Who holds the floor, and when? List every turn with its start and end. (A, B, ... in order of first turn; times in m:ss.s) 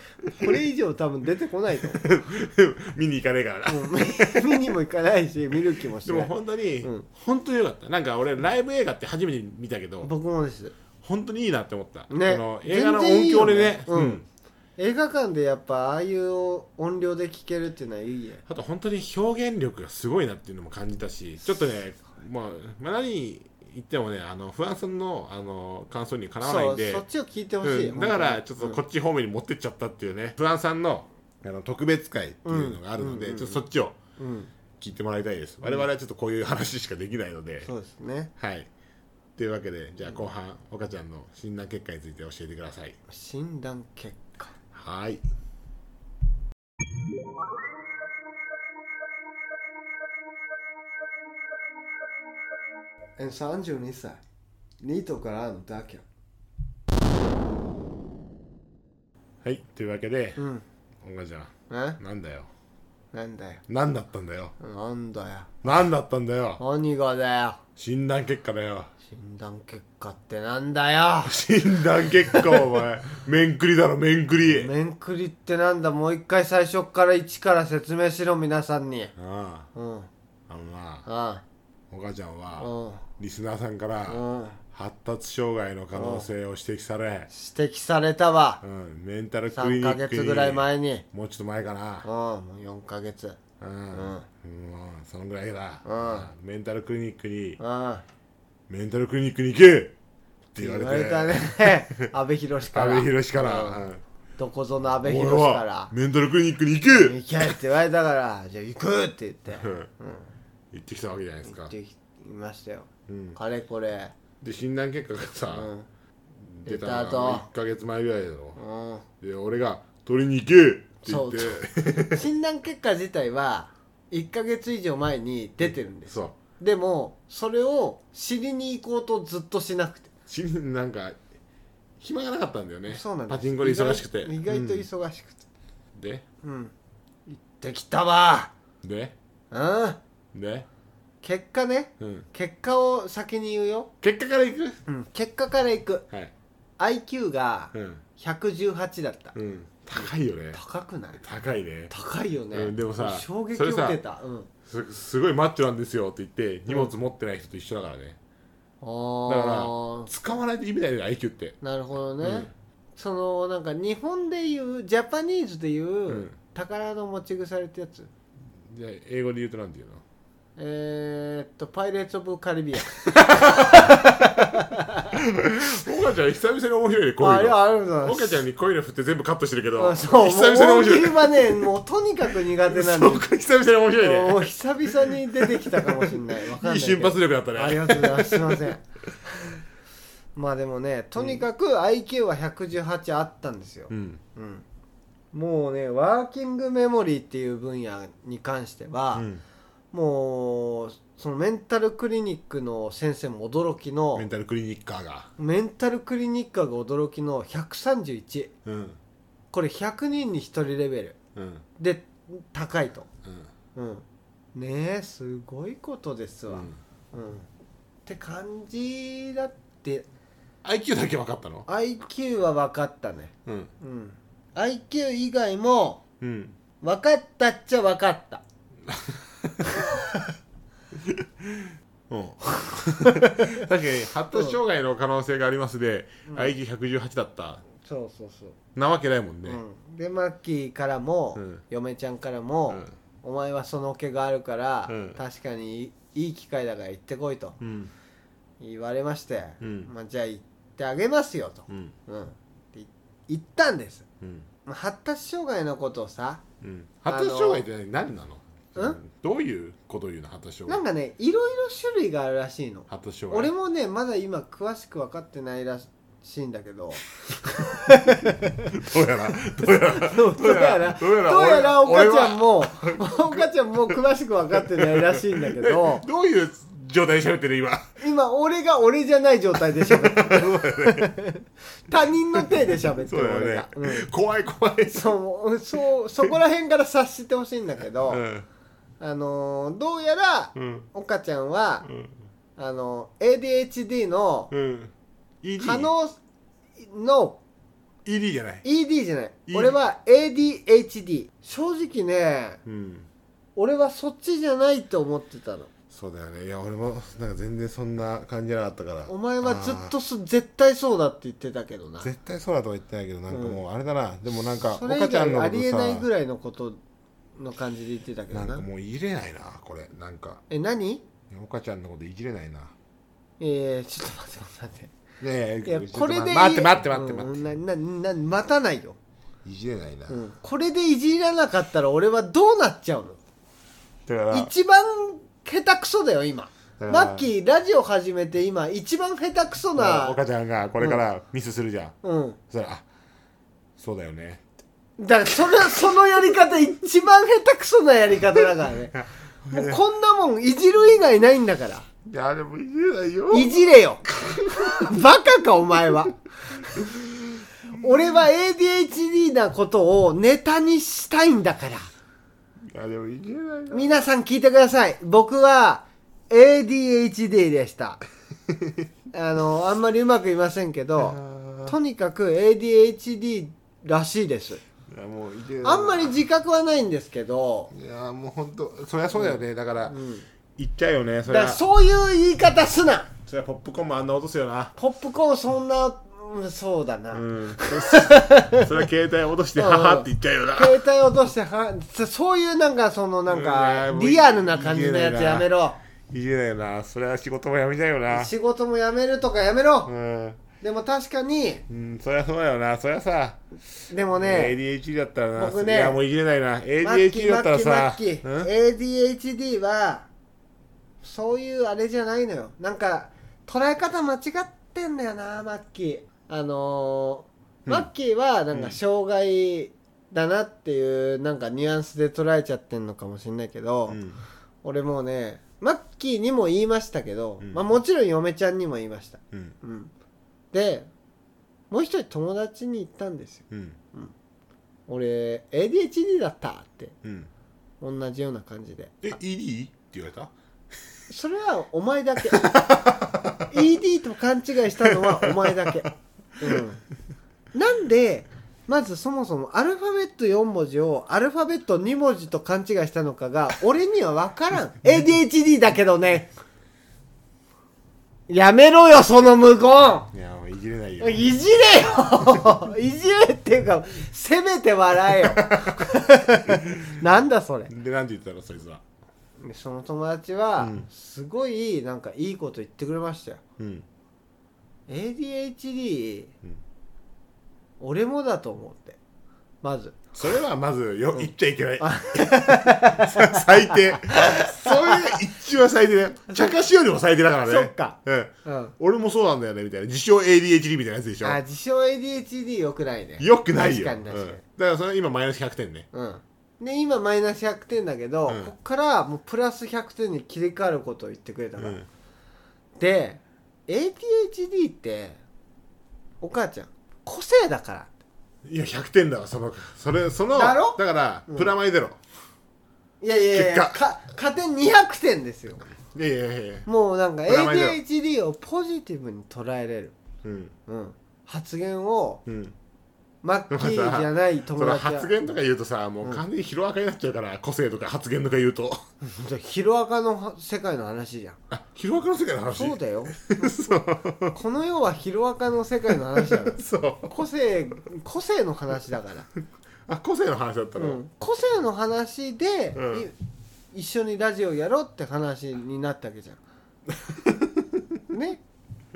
0:00.2-0:02.0 A
0:01.9-0:04.7 B
0:03.7-0:06.3 A
0:06.0-0:10.1 B
0:10.0-0:10.7 A
0:11.0-0:14.2 B
0:12.1-0:14.2 A
0:14.8-0:18.4 A
0:18.5-0:27.0 B
0:26.4-0:28.8 A
0:27.6-0:34.0 B
0:32.4-0:33.6 A
0:34.2-0:34.5 A
0:34.8-0:37.7 B
0:37.6-0:38.3 A
0:38.4-0:38.7 B
0:39.4-0:43.0 B
0:43.1-0:44.5 A
0:44.7-0:45.2 B
0:53.2-0:54.2 A
0:54.8-0:56.0 A
0:59.4-1:00.4 B
1:00.4-1:00.6 A
1:01.0-1:02.5 B
1:01.7-1:02.0 A
1:03.1-1:03.6 A
1:03.7-1:04.5 B
1:04.6-1:05.5 A
1:05.6-1:06.6 B
1:06.6-1:07.6 A
1:07.8-1:08.9 B
1:09.0-1:11.4 A
1:11.2-1:14.7 B
1:12.3-1:12.6 A
1:14.4-1:19.1 A
1:19.2-1:19.7 B
1:19.7-1:20.1 A
1:20.5-1:21.0 B
1:21.0-1:21.4 A
1:21.9-1:27.3 B
1:22.6-1:23.0 A
1:24.1-1:24.6 A
1:25.9-1:26.3 A
1:27.3-1:28.6 A
1:28.6-1:32.1 B
1:29.5-1:31.0 A
1:32.0-1:33.4 A
1:33.6-1:37.6 B
1:33.9-1:34.2 A
1:35.8-1:36.3 A
1:37.6-1:38.0 A
1:38.7-1:39.9 B
1:40.5-1:42.1 B
1:40.6-1:43.8 A
1:42.7-1:44.0 B
1:44.4-1:45.9 A
1:45.0-1:47.5 B
1:46.9-1:50.3 A
1:49.6-1:49.9 B
1:50.7-1:51.7 B
1:51.4-1:54.1 A
1:53.1-1:53.4 B
1:54.4-1:55.7 B
1:55.5-1:55.9 A
1:56.4-1:58.6 B
1:56.6-1:57.4 A
1:58.6-1:59.0 A
1:59.2-2:02.2 B
2:01.0-2:10.1 A
2:05.6-2:06.4 B
2:10.3-2:11.2 B
2:12.0-2:14.9 B
2:12.9-2:15.4 A
2:15.9-2:16.2 B
2:16.4-2:16.7 A
2:17.3-2:18.5 A
2:18.8-2:19.1 B
2:19.5-2:20.0 A
2:20.3-2:20.7 B
2:21.2-2:23.9 A
2:22.0-2:22.3 B
2:24.0-2:24.8 B
2:24.9-2:26.1 A
2:26.8-2:29.3 A
2:27.7-2:28.0 B
2:29.3-2:30.6 B
2:30.5-2:31.2 A
2:31.2-2:31.9 B
2:31.9-2:34.5 A
2:32.5-2:34.0 B
2:34.6-2:38.2 B
2:38.8-2:40.1 A
2:39.2-2:41.6 B
2:41.6-2:48.1 A
2:42.2-2:42.5 B
2:46.1-2:46.3 B
2:48.6-2:50.0 B
2:50.6-2:55.1 A
2:53.1-2:54.4 B
2:55.1-3:01.7 B
2:57.2-2:58.4 A
2:59.8-3:03.3 A
3:02.4-3:08.7 B
3:04.0-3:08.8 A
3:10.3-3:14.6 A
3:11.2-3:11.4 B
3:13.9-3:14.2 B
3:15.3-3:19.3 A
3:19.1-3:19.4 B
3:19.9-3:24.3 A
3:24.1-3:25.3 B
3:25.4-3:28.5 A
3:28.6-3:29.0 B
3:29.5-3:31.2 A
3:31.3-3:31.6 B
3:31.8-3:33.1 A
3:33.2-3:33.5 B
3:33.7-3:37.5 A
3:36.5-3:36.8 B
3:38.0-3:40.1 A
3:40.6-3:41.7 B
3:41.7-3:46.0 A
3:43.4-3:43.7 B
3:46.2-3:46.6 B
3:46.8-3:48.4 A
3:48.9-3:49.9 B
3:51.0-3:57.6 B
3:53.1-3:53.6 A
3:54.3-3:54.6 A
3:56.3-3:56.5 A
3:57.8-3:58.6 A
3:58.7-3:59.6 B
3:59.4-4:07.6 A
4:01.4-4:01.6 B
4:04.9-4:05.2 B
4:07.6-4:07.9 B
4:08.6-4:14.0 A
4:09.6-4:09.9 B
4:11.7-4:11.9 B
4:14.2-4:14.5 B
4:14.6-4:16.4 A
4:16.6-4:20.8 B
4:17.1-4:17.6 A
4:18.7-4:19.0 A
4:20.7-4:27.0 A
4:22.9-4:23.5 B
4:27.6-4:28.8 A
4:27.9-4:34.0 B
4:29.6-4:36.0 A
4:34.5-4:37.8 B
4:38.0-4:44.1 A
4:39.8-4:41.1 B
4:42.3-4:45.1 B
4:44.9-4:48.2 A
4:48.1-4:48.4 B
4:49.0-4:51.9 A
4:50.6-4:50.9 B
4:51.8-4:52.1 B
4:52.6-4:54.5 A
4:54.5-4:54.9 B
4:55.4-4:55.9 B
4:55.6-4:56.2 A
4:56.8-4:57.4 A
4:58.0-4:58.6 B
4:58.6-5:02.6 A
4:59.5-4:59.8 B
5:02.6-5:03.1 B
5:03.6-5:05.7 A
5:05.9-5:09.9 B
5:09.1-5:12.1 A
5:12.0-5:16.1 B
5:13.3-5:13.6 A
5:14.7-5:16.8 A
5:17.4-5:18.6 A
5:18.3-5:20.4 B
5:20.5-5:21.0 A
5:21.3-5:22.7 B
5:23.4-5:24.9 A
5:25.2-5:27.4 B
5:25.6-5:29.0 A
5:29.4-5:30.2 B
5:30.1-5:33.2 A
5:34.0-5:34.5 B
5:34.3-5:40.2 A
5:36.8-5:37.3 B
5:39.8-5:42.0 B
5:42.0-5:42.4 A
5:42.5-5:42.8 B
5:43.8-5:44.4 B
5:45.0-5:51.9 A
5:48.9-5:49.8 B
5:52.0-5:55.0 B
5:53.3-5:54.0 A
5:54.6-5:56.8 A
5:56.7-5:57.4 B
5:57.7-6:01.9 A
6:02.7-6:04.0 B
6:03.7-6:08.0 A
6:09.1-6:14.6 A
6:11.0-6:11.8 B
6:14.9-6:16.1 B
6:15.6-6:17.7 A
6:17.7-6:20.0 B
6:19.1-6:20.2 A
6:20.6-6:21.6 B
6:21.3-6:23.1 A
6:23.2-6:24.7 B
6:24.8-6:28.8 A
6:27.1-6:30.8 B
6:29.6-6:35.8 A
6:33.3-6:35.5 B
6:36.1-6:38.3 B
6:38.1-6:39.9 A
6:39.8-6:40.4 B
6:40.6-6:41.6 A
6:41.7-6:43.4 B
6:43.9-6:44.6 A
6:44.2-6:48.5 B
6:45.4-6:46.0 A
6:46.8-6:50.1 A
6:51.0-7:04.0 A
6:58.5-6:58.8 B
7:03.9-7:04.2 B
7:04.6-7:09.9 A
7:07.4-7:07.7 B
7:10.5-7:10.9 A
7:11.7-7:14.1 A
7:13.5-7:13.8 B
7:14.9-7:17.0 A
7:17.0-7:17.3 B
7:17.8-7:19.1 A
7:19.0-7:20.3 B
7:21.1-7:22.6 A
7:22.3-7:23.5 B
7:23.5-7:26.8 A
7:24.8-7:25.9 B
7:27.5-7:36.3 A
7:38.3-7:40.1 A
7:40.1-7:41.4 B
7:41.0-7:47.7 A
7:45.2-7:45.8 B
7:46.5-7:47.0 B
7:47.7-7:48.8 B
7:49.4-7:53.4 A
7:50.6-7:50.8 B
7:53.6-7:53.8 B
7:54.9-7:56.3 A
7:57.8-7:59.0 A
7:59.6-8:00.0 A
8:00.1-8:11.4 B
8:01.1-8:05.2 A
8:07.5-8:08.7 A
8:11.2-8:14.4 A
8:13.2-8:15.9 B
8:15.9-8:21.8 A
8:18.3-8:18.5 B
8:21.6-8:21.9 B
8:22.8-8:25.2 A
8:26.2-8:27.9 A
8:28.4-8:32.0 B
8:30.3-8:31.5 A
8:33.0-8:35.7 A
8:33.3-8:33.8 B
8:35.7-8:36.7 B
8:36.6-8:40.0 A
8:37.2-8:37.8 B
8:40.2-8:40.5 B
8:40.7-8:42.2 A
8:42.2-8:42.5 B
8:43.2-8:45.1 A
8:43.5-8:48.8 B
8:49.0-8:51.4 A
8:51.5-8:54.4 B
8:52.5-8:53.7 A
8:54.3-8:59.3 A
8:56.1-8:57.1 B
8:59.9-9:01.0 B
9:00.8-9:03.1 A
9:02.7-9:03.1 B
9:03.7-9:06.4 A
9:07.1-9:07.8 B
9:08.1-9:08.4 A